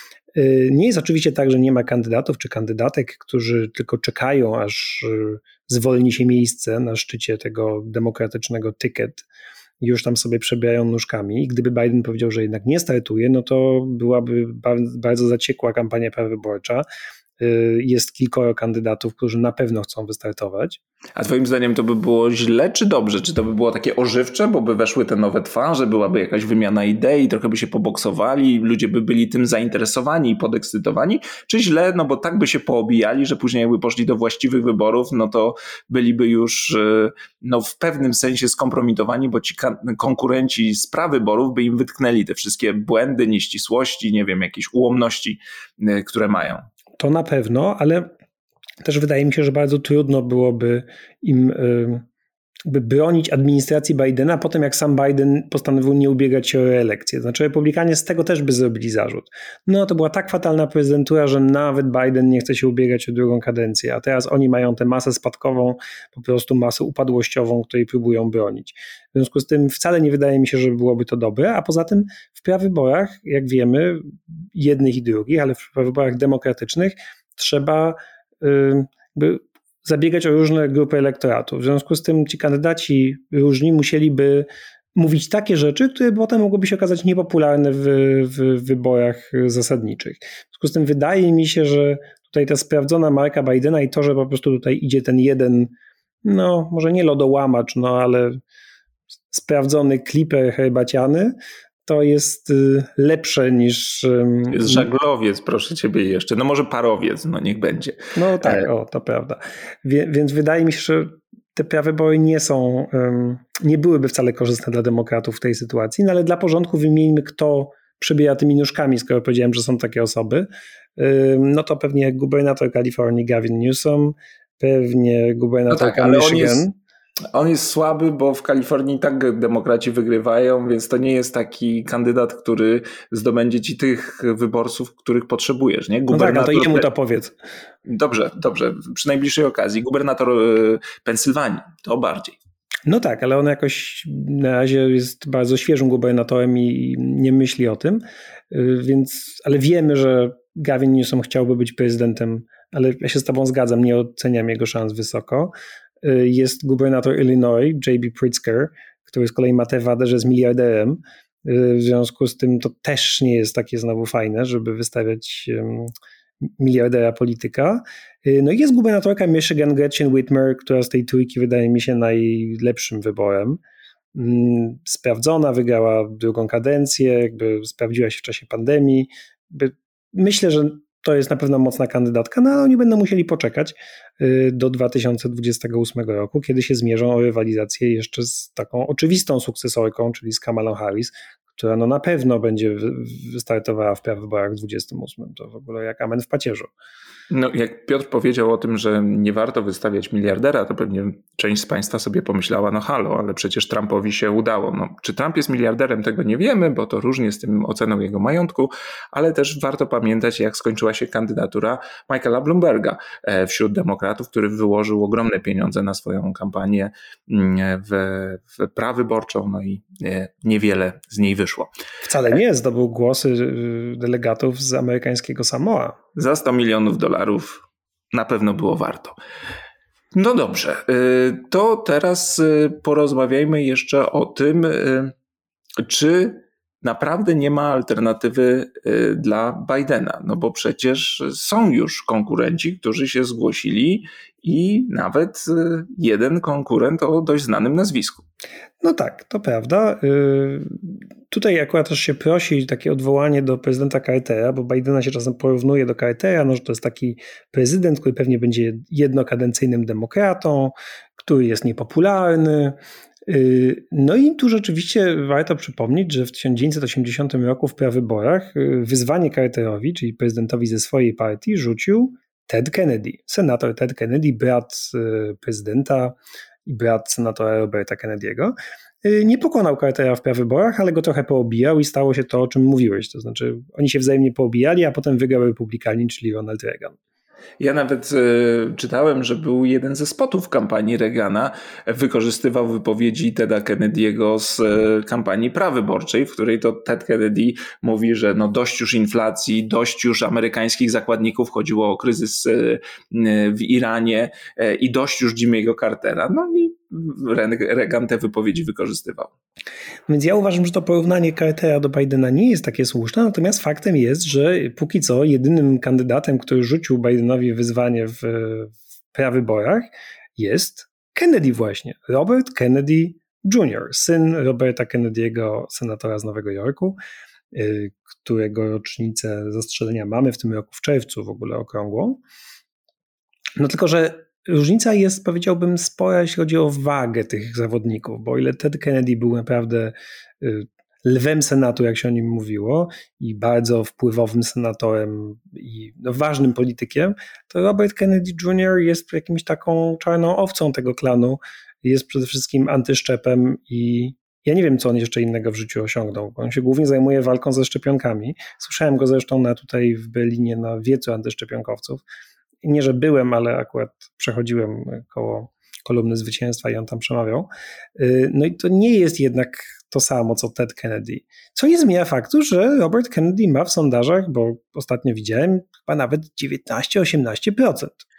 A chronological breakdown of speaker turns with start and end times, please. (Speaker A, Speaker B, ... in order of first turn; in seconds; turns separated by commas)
Speaker A: 0.3-9.2, Speaker A: 9.8-16.9, Speaker A: 17.4-20.8, Speaker B: 21.2-46.6, Speaker A: 47.0-48.1, Speaker A: 48.8-52.0, Speaker A: 52.6-95.7, Speaker A: 96.2-98.4, Speaker A: 99.3-104.9, Speaker B: 104.5-108.7, Speaker A: 108.2-126.7, Speaker B: 125.7-126.6, Speaker B: 127.3-136.9, Speaker A: 136.1-137.3, Speaker B: 137.9-142.4, Speaker A: 142.9-165.9, Speaker A: 166.4-173.6, Speaker A: 174.1-196.7, Speaker B: 197.3-221.7, Speaker A: 222.0-226.0, Speaker B: 226.2-229.2, Speaker B: 230.1-235.1, Speaker B: 235.8-248.2, Speaker A: 248.8-287.0, Speaker B: 287.6-309.3, Speaker A: 310.1-327.0, Speaker A: 327.5-332.2, Speaker A: 333.6-362.0, Speaker A: 362.6-378.0